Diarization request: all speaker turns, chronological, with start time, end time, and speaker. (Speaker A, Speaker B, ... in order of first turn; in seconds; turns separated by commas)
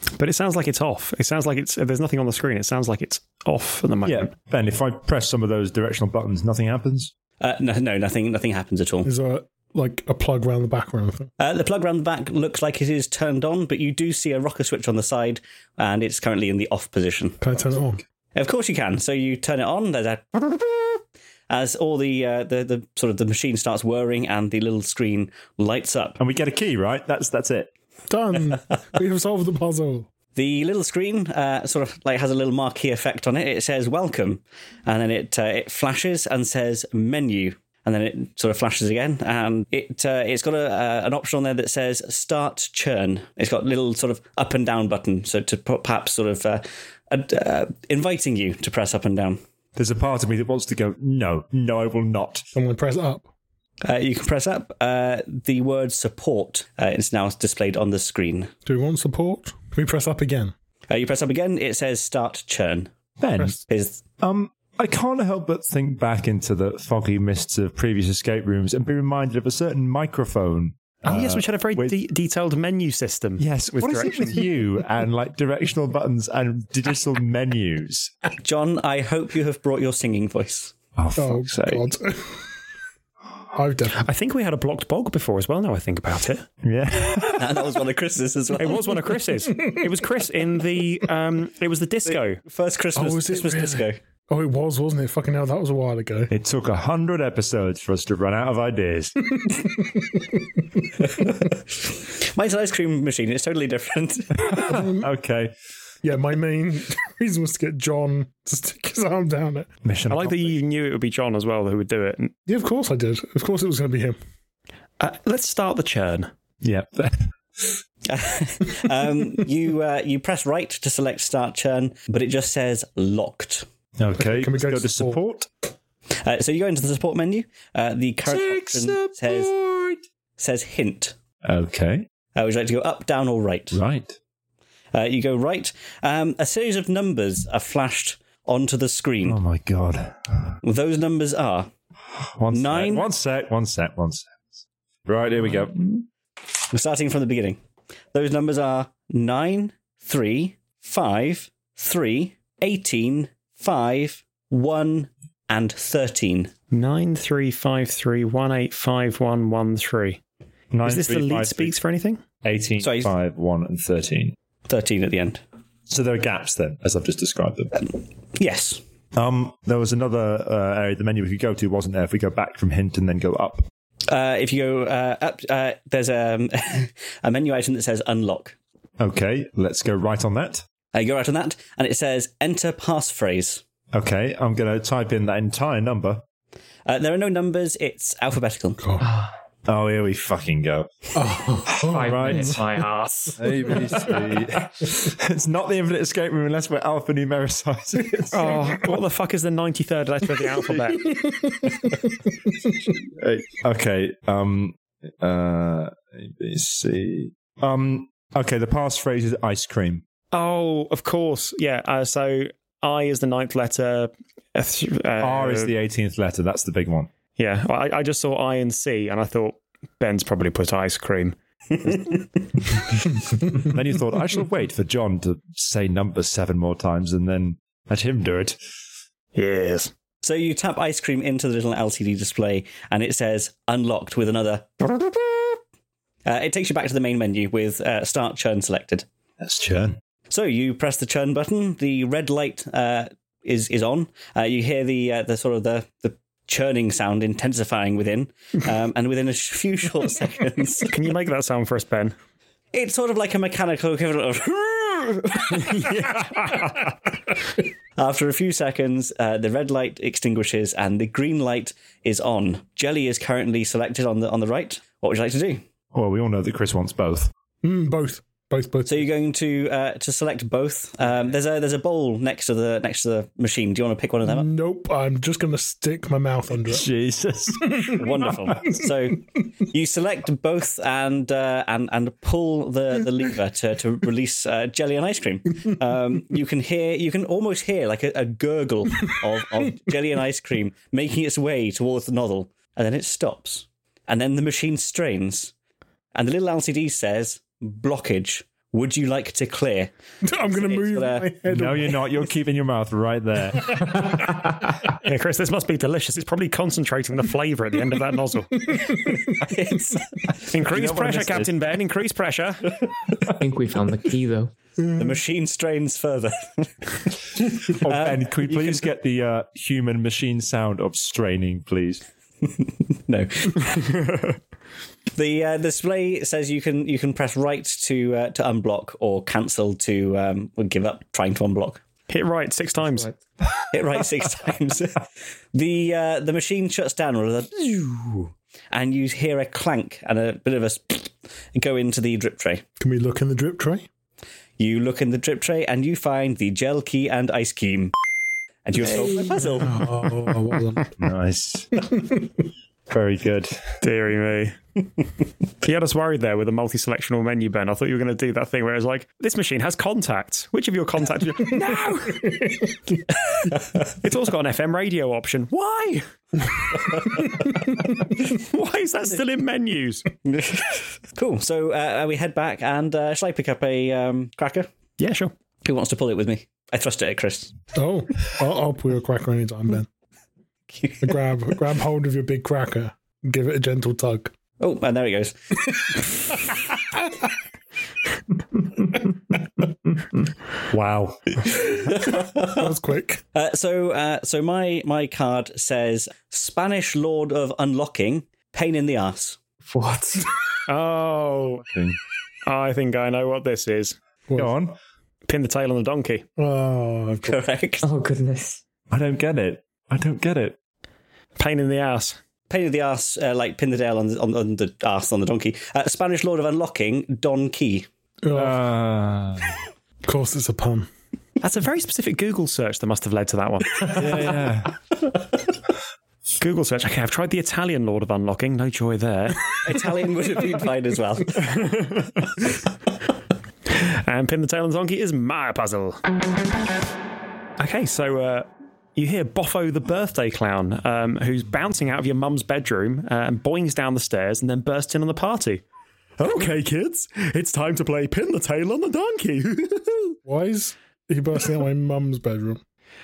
Speaker A: 0.2-4.3, Speaker B: 4.0-7.1, Speaker C: 7.4-9.1, Speaker D: 9.0-11.3, Speaker C: 11.4-17.4, Speaker D: 17.4-18.0, Speaker C: 18.3-26.2, Speaker B: 26.2-27.7, Speaker D: 28.1-30.1, Speaker C: 30.3-49.4, Speaker B: 49.8-52.4, Speaker D: 52.5-53.3, Speaker C: 53.8-58.5, Speaker D: 58.6-60.5, Speaker C: 60.9-62.9, Speaker B: 63.2-63.6, Speaker C: 63.7-64.0, Speaker B: 64.2-71.9, Speaker A: 71.0-74.4, Speaker B: 73.4-78.1, Speaker C: 78.4-80.7, Speaker B: 81.0-81.8, Speaker D: 81.2-82.5, Speaker D: 83.5-84.0, Speaker A: 84.0-86.5, Speaker B: 86.6-87.7, Speaker C: 87.4-88.9, Speaker A: 88.6-92.4, Speaker D: 89.5-89.8, Speaker C: 92.0-94.0, Speaker D: 92.9-96.3, Speaker B: 96.3-99.3, Speaker D: 99.3-100.4, Speaker C: 101.1-104.5, Speaker B: 104.4-105.5, Speaker D: 104.5-105.1, Speaker D: 106.0-109.7, Speaker B: 109.8-110.6, Speaker A: 110.1-112.3, Speaker D: 112.5-114.2, Speaker A: 115.0-116.3, Speaker B: 116.6-117.8, Speaker C: 118.0-123.7, Speaker B: 124.0-125.5, Speaker D: 124.2-125.2, Speaker C: 126.2-129.5, Speaker B: 128.2-130.0, Speaker C: 130.4-131.2, Speaker B: 131.4-132.1, Speaker C: 132.3-133.8, Speaker B: 133.7-134.2, Speaker C: 134.9-139.4, Speaker B: 139.2-140.6, Speaker C: 140.6-141.7, Speaker B: 142.2-145.8, Speaker C: 142.5-143.1, Speaker C: 146.7-147.6, Speaker C: 148.1-156.5, Speaker A: 156.7-160.2, Speaker B: 160.7-161.7, Speaker A: 160.8-162.2, Speaker B: 162.4-164.3, Speaker C: 162.8-163.1, Speaker C: 164.7-165.4, Speaker B: 165.9-167.8, Speaker C: 167.8-168.8, Speaker B: 169.1-173.6, Speaker C: 174.1-178.6, Speaker B: 179.0-180.6, Speaker C: 180.9-183.6, Speaker B: 183.9-186.2, Speaker C: 186.8-188.8, Speaker D: 188.8-189.1, Speaker E: 189.0-189.3, Speaker B: 189.7-191.1, Speaker D: 191.1-192.5, Speaker B: 191.7-192.6, Speaker E: 191.8-193.8, Speaker B: 193.4-199.0, Speaker A: 198.3-201.2, Speaker D: 201.0-202.0, Speaker B: 203.1-210.0, Speaker A: 210.3-215.7, Speaker B: 215.2-217.1, Speaker A: 217.4-222.1, Speaker C: 221.9-222.2, Speaker B: 223.6-228.6, Speaker A: 229.3-229.9, Speaker C: 230.2-235.6, Speaker C: 236.2-239.1, Speaker B: 239.4-240.0, Speaker C: 240.3-250.9, Speaker A: 250.9-252.1, Speaker C: 252.7-256.5, Speaker A: 256.0-256.5, Speaker C: 258.0-265.6, Speaker B: 265.9-267.3, Speaker D: 267.6-269.1, Speaker C: 268.9-274.5, Speaker D: 274.2-276.9, Speaker B: 276.6-278.3, Speaker D: 277.6-278.0, Speaker C: 277.9-295.5, Speaker C: 296.1-299.9, Speaker D: 300.2-302.2, Speaker C: 300.4-301.3, Speaker B: 301.5-304.1, Speaker D: 303.5-304.1, Speaker A: 304.9-308.8, Speaker D: 308.7-309.3, Speaker C: 309.3-310.4, Speaker A: 310.5-312.7, Speaker B: 310.6-311.5, Speaker E: 313.3-314.5, Speaker D: 314.8-315.1, Speaker C: 314.9-318.9, Speaker B: 317.7-322.0, Speaker C: 322.4-324.0, Speaker C: 325.1-331.8, Speaker A: 332.1-333.1, Speaker E: 332.8-333.2, Speaker C: 333.7-342.6, Speaker D: 342.8-343.9, Speaker C: 344.6-347.9, Speaker C: 348.6-349.9, Speaker D: 349.0-350.9, Speaker B: 351.0-351.8, Speaker D: 351.8-352.2, Speaker B: 352.9-353.8, Speaker A: 353.8-354.6, Speaker A: 355.6-362.4, Speaker D: 362.1-363.0, Speaker A: 363.9-366.8, Speaker A: 368.2-370.1, Speaker C: 370.2-374.7, Speaker A: 375.0-375.3, Speaker C: 375.6-377.5, Speaker D: 377.7-379.9, Speaker C: 380.7-381.1, Speaker D: 381.0-384.3, Speaker C: 384.6-386.0, Speaker D: 386.4-387.0, Speaker B: 390.7-391.5, Speaker C: 391.6-392.7, Speaker D: 392.4-393.2, Speaker C: 393.3-399.4, Speaker E: 399.6-400.3, Speaker A: 400.7-401.6, Speaker B: 401.7-402.0, Speaker A: 402.4-404.0, Speaker B: 404.4-404.8, Speaker A: 405.3-406.2, Speaker D: 406.4-407.4, Speaker C: 407.2-407.8, Speaker E: 407.8-408.6, Speaker B: 408.9-410.6, Speaker A: 411.4-412.2, Speaker C: 412.5-417.9, Speaker D: 418.2-418.6, Speaker B: 418.3-419.5, Speaker D: 420.0-420.9, Speaker A: 421.4-424.4, Speaker B: 423.9-424.7, Speaker A: 426.4-429.6, Speaker C: 429.6-431.6, Speaker A: 431.4-432.5, Speaker A: 433.7-436.0, Speaker A: 437.6-445.6, Speaker A: 446.2-450.2, Speaker D: 450.2-452.6